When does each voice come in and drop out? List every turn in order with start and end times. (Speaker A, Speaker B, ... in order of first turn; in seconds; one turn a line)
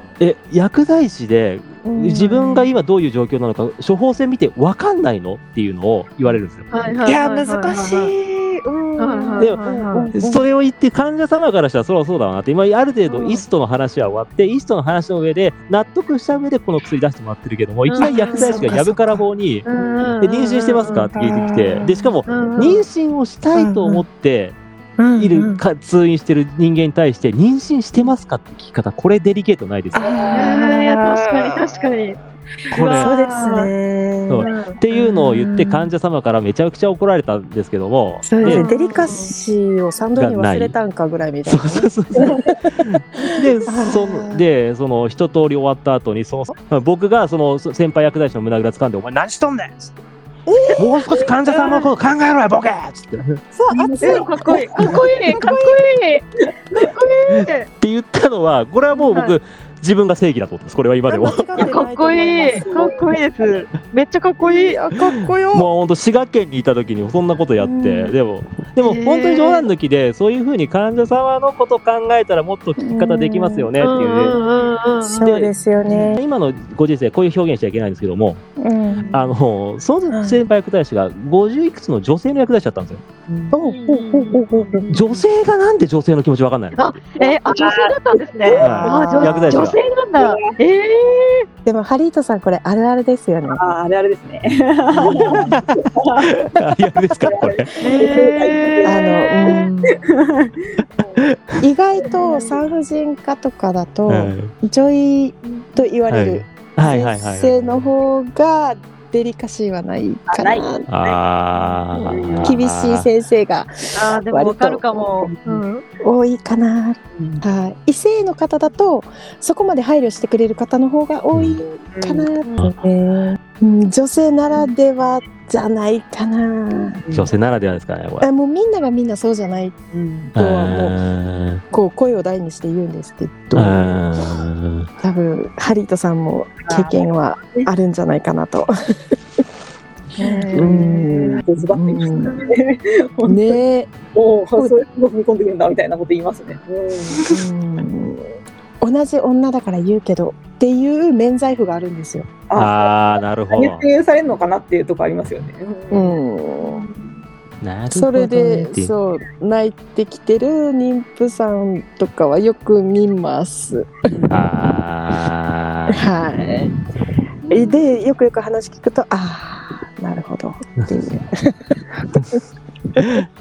Speaker A: 0.2-6.7
Speaker B: 1.8-2.7
Speaker C: 6.7-8.1
Speaker B: 7.0-10.4
Speaker C: 9.0-10.1
Speaker A: 10.1-19.7
Speaker C: 13.1-13.4
Speaker C: 17.9-18.7
Speaker B: 18.0-19.2
Speaker C: 19.7-21.1
Speaker D: 19.7-20.1
Speaker A: 20.2-24.6
Speaker B: 21.1-22.1
Speaker C: 22.3-22.9
Speaker B: 23.5-24.0
Speaker B: 25.0-25.6
Speaker A: 25.2-30.1
Speaker B: 29.9-31.8
Speaker C: 30.3-32.2
Speaker A: 32.7-33.2
Speaker C: 32.7-33.7
Speaker B: 32.8-35.9
Speaker A: 34.3-38.7
Speaker C: 34.4-34.8
Speaker B: 38.2-44.4
Speaker C: 38.4-39.3
Speaker A: 40.1-40.7
Speaker A: 41.5-49.9
Speaker B: 50.5-51.8
Speaker A: 50.8-53.4
Speaker C: 51.6-51.9
Speaker B: 53.5-55.8
Speaker D: 53.7-55.1
Speaker C: 54.0-57.7
Speaker A: 57.3-61.5
Speaker C: 59.1-59.4
Speaker B: 61.1-62.6
Speaker D: 61.6-63.1
Speaker C: 61.6-64.8
Speaker B: 64.4-65.7
Speaker A: 65.5-74.4
Speaker B: 67.6-68.1
Speaker C: 68.8-69.7
Speaker B: 72.8-73.7
Speaker C: 73.8-75.3
Speaker B: 75.0-76.2
Speaker A: 75.2-75.5
Speaker D: 75.8-76.1
Speaker A: 76.1-78.4
Speaker B: 78.6-79.1
Speaker A: 79.1-83.0
Speaker B: 80.1-80.4
Speaker D: 83.3-83.6
Speaker B: 83.5-84.9
Speaker C: 83.7-84.4
Speaker D: 84.7-85.2
Speaker A: 84.9-86.9
Speaker C: 86.8-91.5
Speaker D: 87.2-89.2
Speaker B: 88.5-89.6
Speaker A: 88.6-89.8
Speaker D: 90.2-90.6
Speaker B: 91.7-93.6
Speaker D: 93.5-96.5
Speaker A: 95.0-97.7
Speaker D: 97.2-100.7
Speaker C: 97.8-99.6
Speaker B: 98.8-100.0
Speaker B: 101.0-110.9
Speaker A: 101.2-101.6
Speaker D: 102.1-102.6
Speaker A: 104.1-104.5
Speaker A: 106.1-107.9
Speaker D: 110.3-111.2
Speaker A: 110.9-113.1
Speaker D: 111.9-112.6
Speaker B: 112.5-114.8
Speaker C: 113.9-115.8
Speaker D: 115.2-115.6
Speaker B: 116.0-127.0
Speaker D: 117.1-117.4
Speaker A: 121.3-121.6
Speaker D: 121.7-122.3
Speaker C: 122.4-122.7
Speaker D: 126.7-127.3
Speaker A: 127.1-128.3
Speaker B: 128.2-129.8
Speaker D: 129.9-130.3
Speaker B: 130.3-131.0
Speaker A: 130.3-131.6
Speaker B: 131.7-134.3
Speaker A: 133.5-134.9
Speaker B: 135.0-138.7
Speaker D: 136.6-137.7
Speaker D: 140.2-147.3
Speaker B: 140.2-142.3
Speaker C: 140.3-140.8
Speaker B: 143.2-144.0
Speaker B: 147.3-148.2
Speaker B: 148.8-152.3
Speaker D: 152.5-156.2
Speaker A: 152.6-153.8
Speaker B: 155.9-156.9
Speaker A: 157.6-158.9
Speaker B: 157.9-163.9
Speaker D: 164.1-164.4
Speaker A: 164.3-166.0
Speaker B: 165.9-166.7
Speaker B: 167.5-172.4
Speaker A: 173.0-173.2